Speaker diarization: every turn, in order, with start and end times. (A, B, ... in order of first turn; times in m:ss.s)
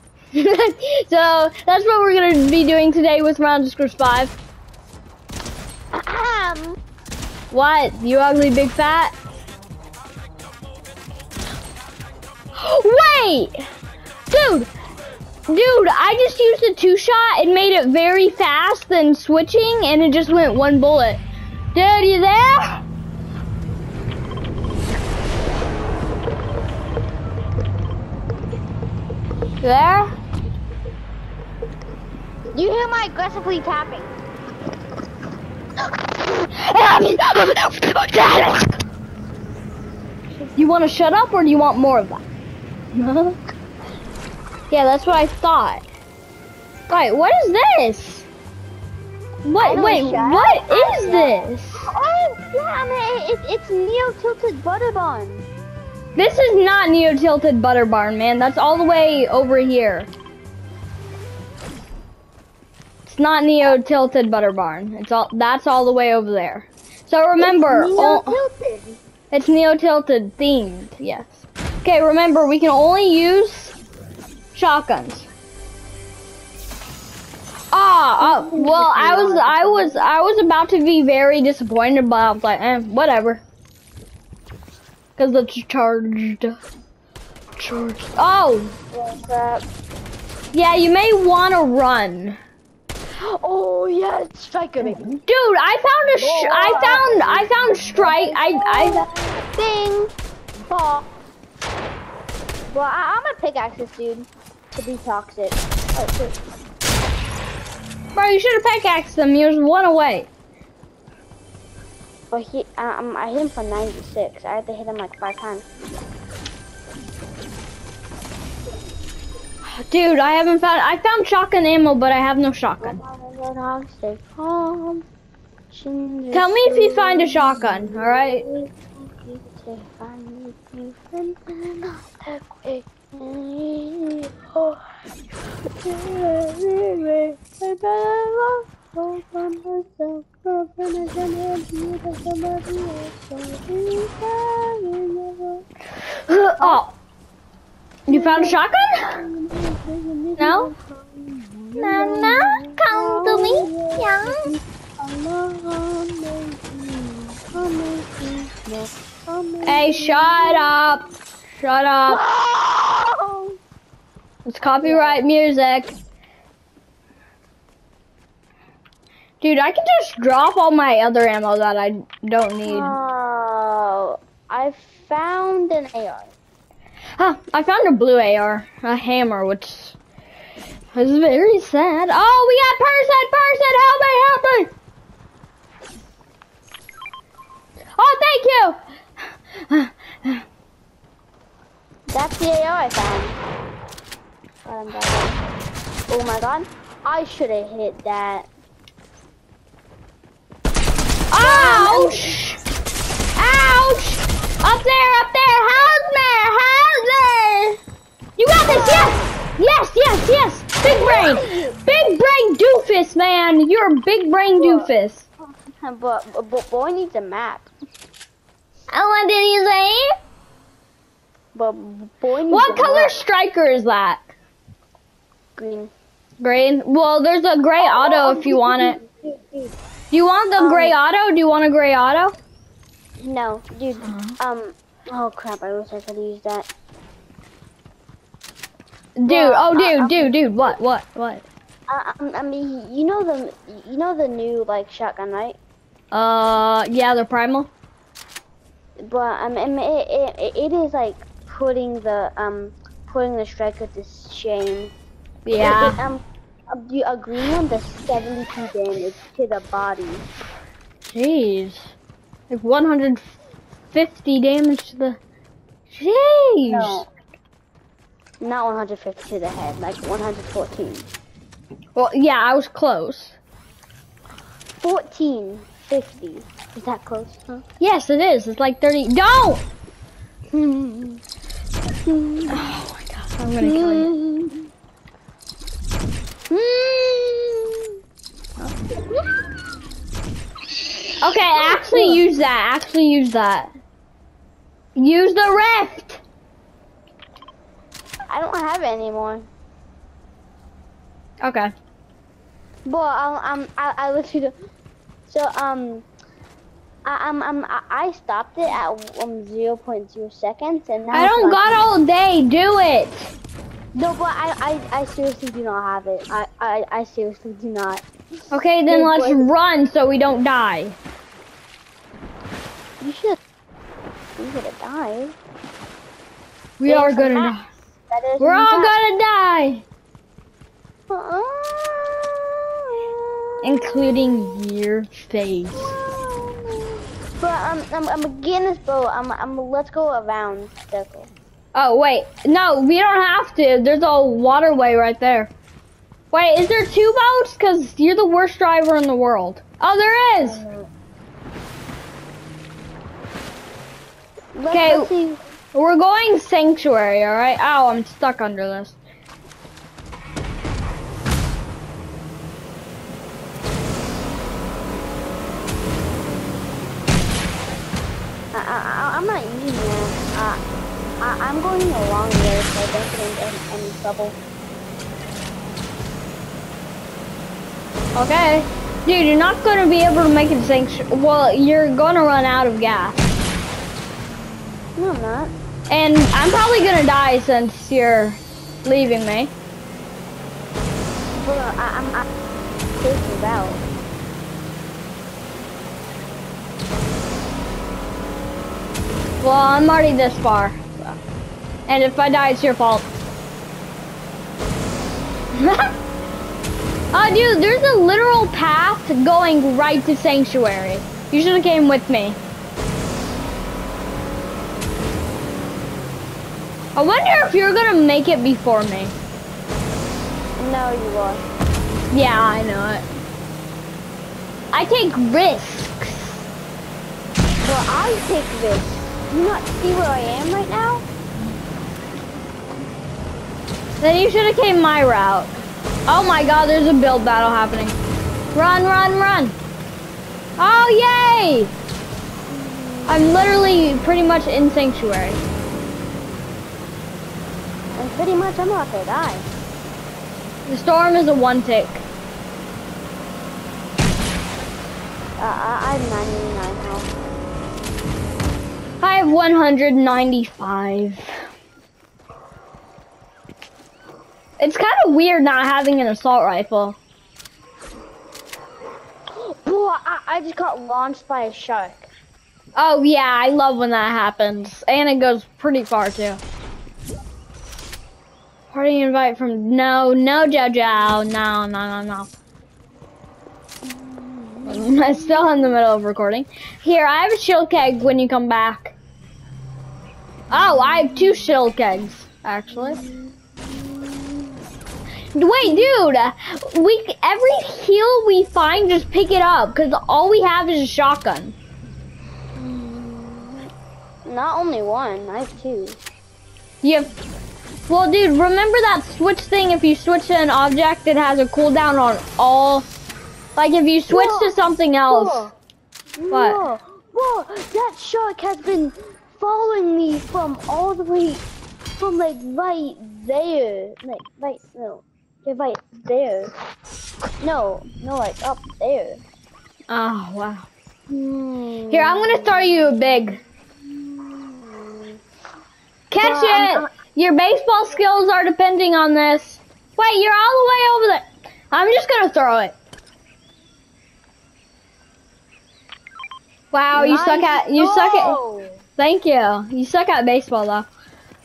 0:00.3-0:04.3 A
0:05.9-0:06.8 B
0:07.5-0:09.2 A
0:12.6-0:13.5 A
0:14.3-0:14.7 A
0:15.5-0:21.2 A
0:21.7-0:22.8 A
0:29.6-0:30.1 A
0:32.5-0:34.1 B
0:36.5-0:38.8 A
0:40.6-0:42.2 A
0:43.0-0:43.4 A
0:44.7-0:45.8 A
0:46.9-0:48.3 A
0:49.4-0:51.9 A
0:49.6-0:55.5 B
0:56.2-1:00.1 A
1:03.1-1:08.4 A
1:07.4-1:09.0 B
1:09.3-1:13.8 A
1:14.5-1:15.3 A
1:17.7-1:23.4 A
1:18.2-1:20.1 B
1:25.2-1:26.6 A
1:27.6-1:28.7 A
1:28.9-1:29.7 B
1:30.5-1:32.4 A
1:33.2-1:35.1 B
1:34.8-1:39.0 A
1:36.1-1:40.1 B
1:40.7-1:41.1 B
1:42.7-1:46.4 B
1:48.2-1:50.3 A
1:52.3-1:55.8 B
1:59.6-2:03.0 A
2:02.8-2:05.0 B
2:05.7-2:14.9 B
2:06.3-2:08.4 A
2:15.8-2:25.6 B
2:26.3-2:26.9 A
2:28.1-2:29.2 A
2:28.1-2:40.8 B
2:30.4-2:30.7 A
2:31.8-2:34.5 A
2:39.6-2:42.2 A
2:42.1-2:43.6 B
2:44.5-2:45.9 A
2:44.8-2:45.2 B
2:49.4-2:52.9 A
2:52.6-2:56.3 B
2:57.2-3:00.0 A
3:00.9-3:04.7 A
3:08.0-3:08.8 A
3:09.5-3:10.4 A
3:12.1-3:13.4 B
3:14.6-3:15.4 B
3:16.1-3:18.5 B
3:21.3-3:22.6 A
3:21.4-3:22.4 B
3:23.4-3:27.8 A
3:28.4-3:35.3 A
3:28.6-3:29.3 B
3:30.9-3:31.8 B
3:34.6-3:34.9 B
3:35.6-3:37.7 B
3:38.9-3:40.1 A
3:41.5-3:43.1 B
3:42.5-3:44.3 A
3:45.6-3:45.9 B
3:46.4-3:49.0 A
3:47.8-3:49.7 B
3:50.1-3:52.3 A
3:50.6-3:51.0 B
3:53.2-3:56.7 B
3:54.0-3:54.4 A
3:59.2-4:01.4 A
3:59.3-4:00.4 B
4:01.9-4:05.6 B
4:06.1-4:07.7 A
4:09.0-4:14.9 B
4:15.5-4:16.0 A
4:15.6-4:20.2 B
4:21.1-4:21.9 A
4:22.5-4:23.3 A
4:23.9-4:25.2 A
4:25.9-4:27.0 A
4:26.6-4:27.1 B
4:28.4-4:31.1 B
4:32.0-4:33.4 A
4:34.8-4:37.6 B
4:37.8-4:39.7 A
4:40.5-4:41.2 B
4:42.1-4:42.6 B
4:42.5-4:44.1 A
4:43.6-4:44.6 B
4:46.5-4:47.9 B
4:51.1-4:52.2 B
4:51.2-4:53.7 A
4:55.0-4:56.2 A
4:58.3-4:59.5 B
5:01.4-5:01.7 A
5:02.9-5:04.6 B
5:05.3-5:06.1 B
5:07.0-5:11.8 B
5:11.1-5:13.3 A
5:13.9-5:18.0 B
5:18.5-5:21.0 A
5:18.9-5:19.5 B
5:23.0-5:23.4 B
5:24.4-5:25.4 B
5:26.8-5:27.7 A
5:26.9-5:29.0 B
5:28.4-5:29.8 A
5:31.1-5:34.2 B
5:33.6-5:35.9 A
5:35.7-5:41.3 B
5:41.8-5:45.5 A
5:46.3-5:50.6 A
5:50.4-5:50.9 B
5:54.6-5:55.4 B
5:54.7-5:55.1 A
5:55.7-5:59.0 A
6:08.5-6:10.6 B
6:11.2-6:14.4 B
6:18.2-6:23.3 A
6:25.0-6:25.5 B
6:25.9-6:29.5 A
6:31.4-6:32.3 B
6:33.0-6:33.9 B
6:39.4-6:41.2 A
6:41.9-6:43.1 A
6:45.5-6:45.9 A
6:47.1-6:52.4 A
6:57.0-6:59.2 A
7:00.6-7:01.4 B
7:02.1-7:03.0 A
7:04.7-7:06.4 A
7:07.6-7:11.0 B
7:14.0-7:15.5 A
7:16.1-7:18.0 A
7:18.5-7:19.6 A
7:20.6-7:21.7 A
7:22.5-7:23.2 B
7:23.1-7:25.4 A
7:28.0-7:29.5 B
7:30.7-7:32.0 A
7:35.4-7:37.2 B
7:39.0-7:41.3 A
7:44.6-7:47.0 A
7:49.3-7:52.1 B
7:52.8-7:56.4 A
7:58.7-8:02.3 A
8:03.9-8:05.7 B
8:04.6-8:09.0 A
8:10.5-8:13.0 A
8:12.8-8:14.5 B
8:15.4-8:21.6 A
8:15.6-8:15.9 B
8:22.6-8:23.7 B
8:24.2-8:26.0 B
8:26.8-8:27.1 A
8:27.9-8:32.9 A
8:33.6-8:35.5 A
8:34.1-8:34.6 B
8:35.1-8:35.5 B
8:36.2-8:41.4 B
8:36.3-8:36.6 A
8:42.0-8:46.5 B
8:47.4-8:49.2 B
8:49.9-8:50.7 A
8:51.1-8:53.0 B
8:51.9-8:53.4 A
8:53.8-8:55.2 B
8:56.1-9:02.8 A
8:56.2-8:56.9 B
9:06.7-9:08.4 A
9:06.9-9:08.8 B
9:09.0-9:10.9 A